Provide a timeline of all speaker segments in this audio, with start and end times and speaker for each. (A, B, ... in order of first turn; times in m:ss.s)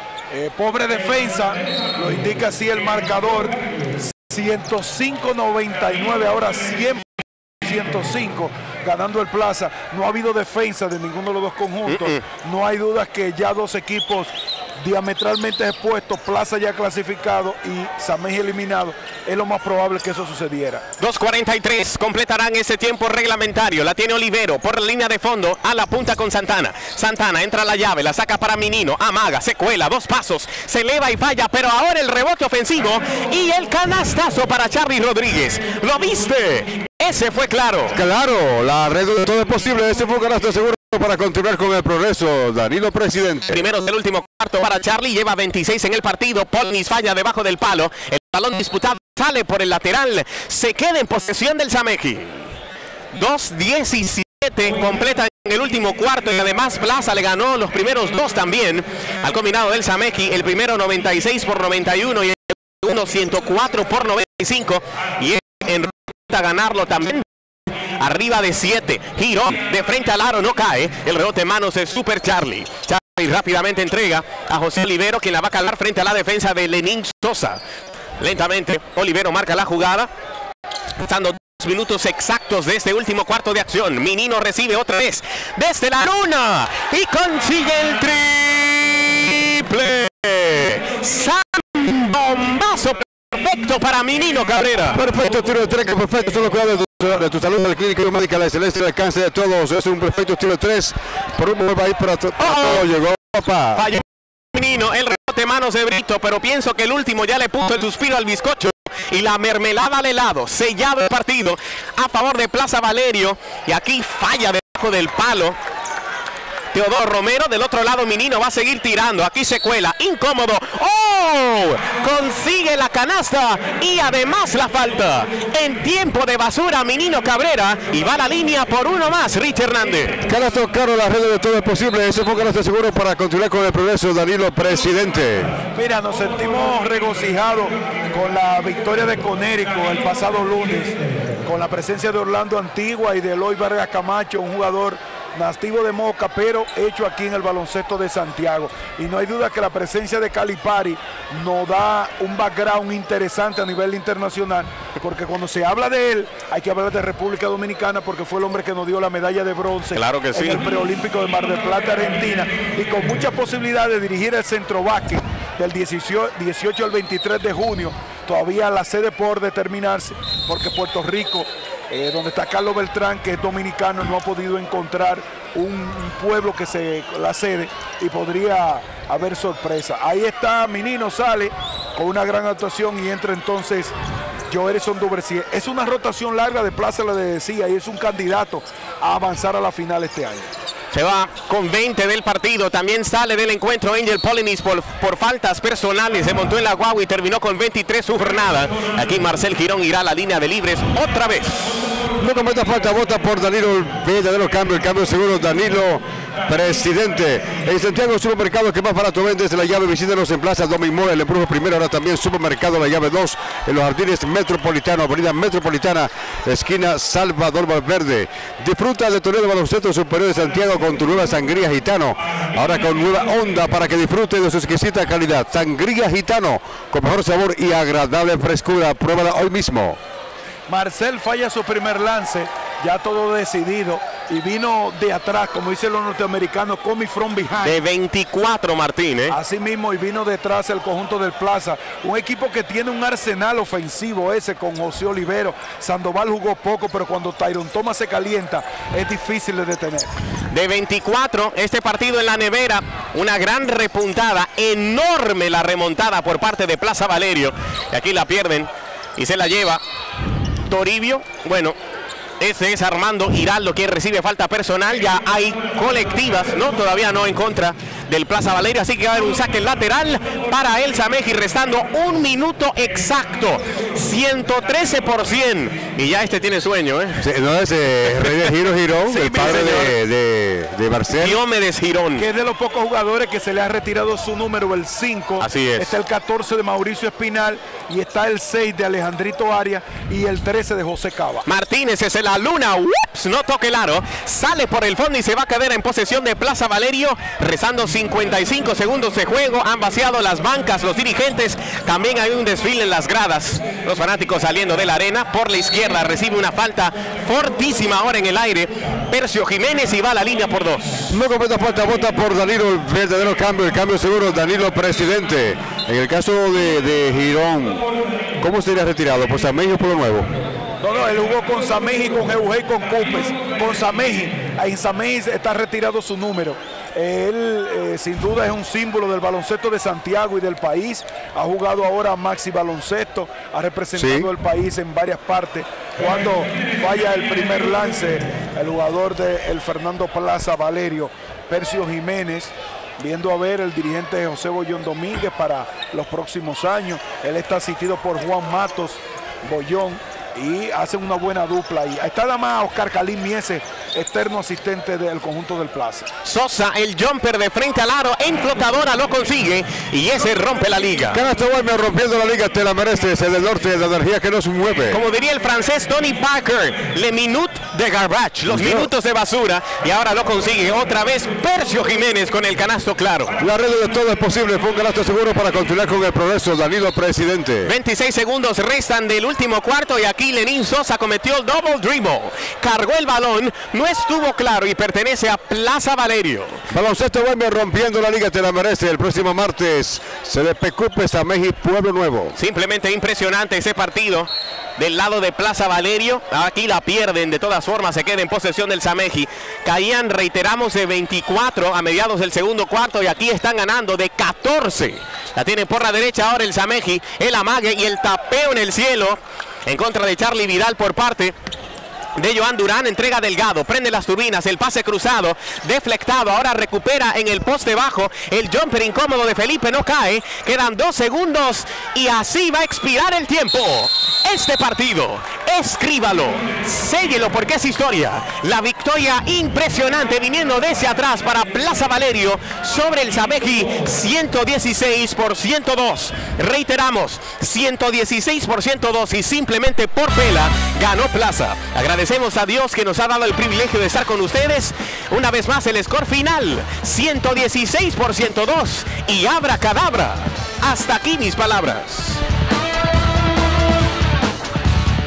0:00.3-0:20.8 A
0:11.9-0:12.2 B
0:21.0-0:38.0 B
0:37.9-0:43.6 C
0:43.5-0:52.5 B
0:53.1-1:17.6 B
1:18.2-1:20.1 B
1:21.0-1:35.0 B
1:35.0-1:43.8 C
1:42.4-1:42.8 B
1:43.7-1:55.6 B
1:56.7-2:10.2 B
2:10.2-2:15.5 C
2:15.7-3:03.9 A
2:39.9-2:40.6 B
3:04.5-3:10.5 A
3:10.9-3:21.8 B
3:22.2-3:50.0 C
3:50.7-3:57.8 A
3:57.6-3:59.4 B
3:59.3-4:10.1 A
4:10.5-4:19.8 B
4:20.6-4:21.8 B
4:22.4-4:37.2 B
4:37.2-4:41.4 C
4:38.1-4:38.5 B
4:39.1-4:40.0 B
4:41.1-4:42.3 B
4:42.2-4:51.5 A
4:45.4-4:46.0 B
4:51.5-5:11.2 B
5:11.1-5:17.9 C
5:18.4-5:20.3 C
5:20.8-5:56.1 A
5:33.9-5:34.3 C
5:56.2-6:01.2 B
6:01.1-6:05.0 C
6:04.9-6:13.3 B
6:08.5-6:08.9 C
6:13.4-6:17.7 C
6:17.6-6:26.6 B
6:26.7-6:32.4 C
6:32.4-6:51.4 B
6:52.2-7:32.2 B